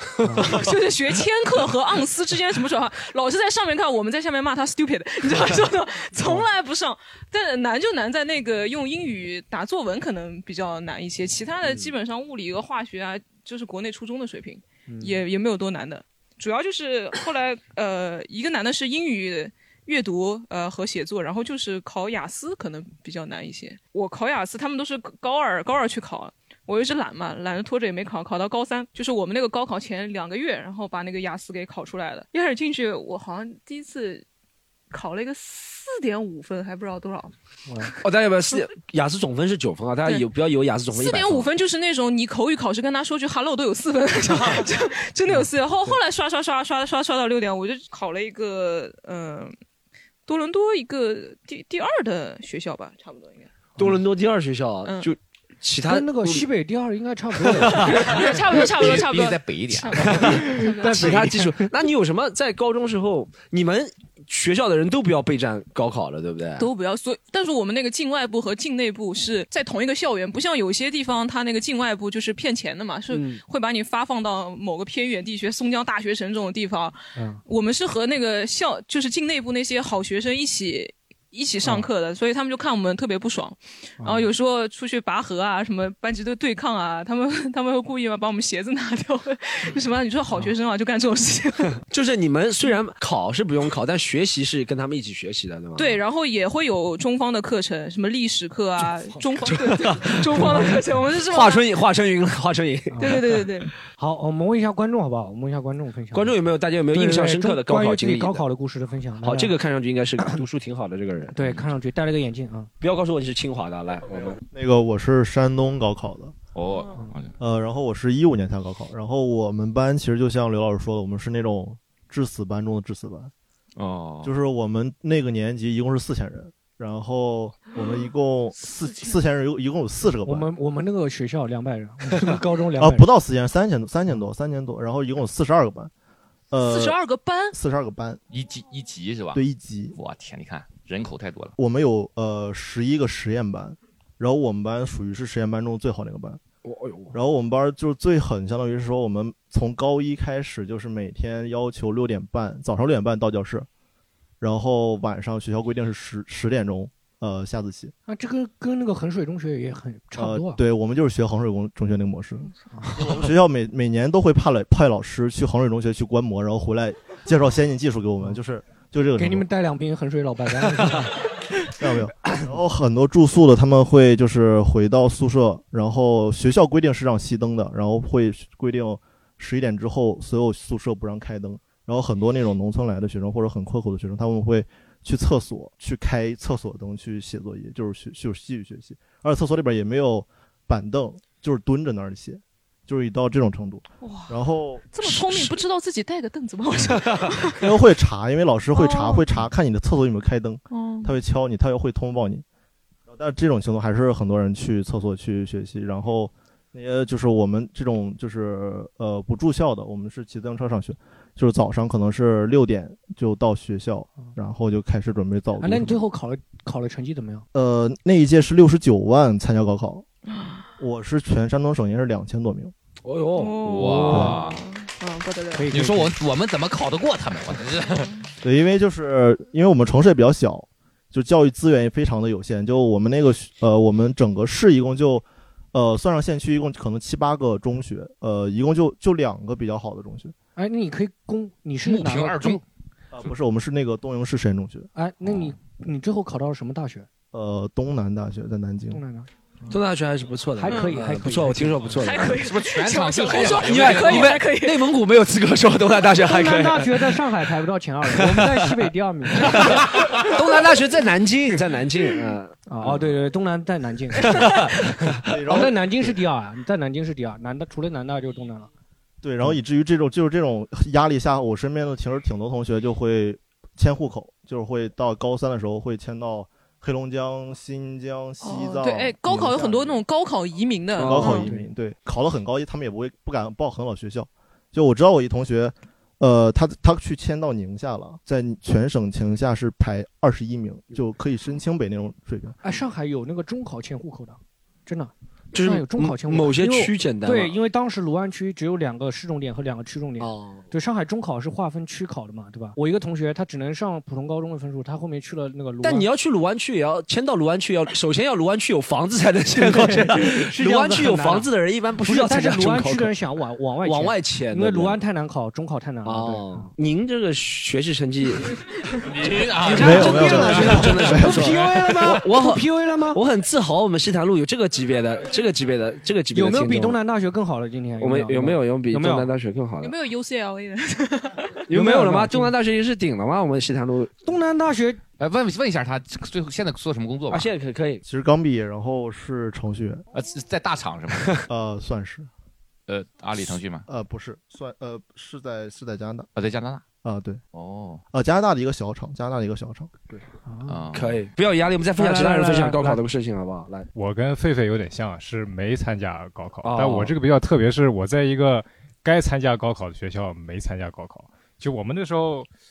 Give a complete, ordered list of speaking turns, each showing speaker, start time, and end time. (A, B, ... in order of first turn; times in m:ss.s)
0:00.2-0:00.6 A
0:00.4-0:34.3 B
0:14.9-0:15.2 A
0:34.9-0:37.3 B
0:38.0-0:41.5 C
0:40.9-0:49.5 B
0:45.4-0:46.0 A
0:50.3-0:53.5 B
0:53.8-0:56.5 C
0:54.8-0:55.1 B
0:55.9-0:58.2 A
0:57.4-0:58.0 C
0:57.8-1:01.2 B
0:58.6-1:00.2 D
1:00.0-1:06.7 C
1:00.1-1:01.7 A
1:06.6-1:31.8 B
1:17.2-1:17.4 A
1:24.0-1:24.3 A
1:31.9-1:36.0 C
1:35.8-1:41.7 B
1:39.4-1:43.3 C
1:42.9-1:43.2 A
1:43.0-1:43.7 B
1:44.0-1:46.4 A
1:46.1-1:48.4 C
1:46.9-1:49.5 A
1:49.2-1:51.7 C
1:50.2-1:50.4 A
1:51.3-1:52.7 A
1:52.8-1:54.4 C
1:54.5-1:56.4 E
1:56.6-1:57.3 D
1:57.4-2:03.3 E
2:03.8-2:04.4 D
2:04.2-2:10.5 E
2:10.2-2:13.1 A
2:12.8-2:15.9 E
2:16.5-2:17.0 E
2:16.6-2:17.6 B
2:17.5-2:18.2 E
2:18.3-2:19.4 D
2:19.3-2:20.0 E
2:20.0-2:21.6 D
2:21.6-2:26.4 E
2:26.6-2:27.1 C
2:27.1-2:33.7 E
2:34.4-2:37.9 E
2:38.1-2:40.6 A
2:40.2-2:49.5 E
2:42.7-2:43.3 A
2:49.2-2:51.2 A
2:51.8-3:14.8 E
2:51.8-2:52.6 A
3:14.0-3:14.4 B
3:14.9-3:17.6 B
3:17.6-3:22.4 E
3:18.7-3:19.3 B
3:20.7-3:21.2 B
3:23.1-3:36.0 E
3:35.6-3:37.4 A
3:37.5-3:40.0 E
3:40.3-3:40.6 B
3:40.8-3:42.7 E
3:43.0-3:44.3 C
3:43.4-3:45.7 B
3:43.6-3:44.6 D
3:45.5-3:46.2 A
3:45.7-3:48.1 D
3:48.4-4:00.3 E
4:00.6-4:02.6 A
4:01.8-4:02.6 D
4:03.1-4:04.9 E
4:04.9-4:07.1 A
4:07.3-4:09.0 E
4:08.9-4:09.3 A
4:09.7-4:12.4 C
4:10.6-4:11.9 A
4:10.7-4:11.0 B
4:12.0-4:14.9 B
4:12.3-4:14.4 D
4:13.6-4:17.2 C
4:16.2-4:19.8 A
4:18.1-4:18.8 C
4:19.4-4:23.1 C
4:22.7-4:24.4 A
4:24.2-4:25.6 C
4:25.3-4:25.8 E
4:25.5-4:28.7 A
4:29.2-4:40.0 E
4:38.4-4:41.5 B
4:41.0-4:41.5 C
4:41.0-4:52.6 E
4:41.3-4:41.7 A
4:52.6-5:06.1 A
4:55.5-4:57.6 C
5:00.2-5:00.7 C
5:05.8-5:13.1 C
5:09.5-5:16.7 A
5:13.8-5:15.0 C
5:16.0-5:18.6 C
5:19.1-5:21.0 D
5:19.6-5:27.0 C
5:19.7-5:23.2 A
5:20.1-5:20.3 E
5:26.3-5:29.3 A
5:28.0-5:29.9 C
5:29.8-5:31.5 B
5:31.7-5:34.1 C
5:31.7-5:32.5 A
5:34.2-5:35.0 A
5:35.2-5:37.5 D
5:37.3-5:38.0 C
5:38.0-5:40.1 E
5:40.1-5:41.4 D
5:41.5-5:42.3 E
5:42.9-5:43.8 D
5:43.9-5:46.3 E
5:46.4-5:46.8 D
5:47.0-5:47.4 E
5:47.5-5:48.0 D
5:48.1-5:50.1 E
5:50.4-5:50.8 A
5:50.7-5:51.2 D
5:50.9-5:53.9 C
5:51.9-5:53.0 A
5:53.9-6:02.5 F
5:56.6-5:57.1 C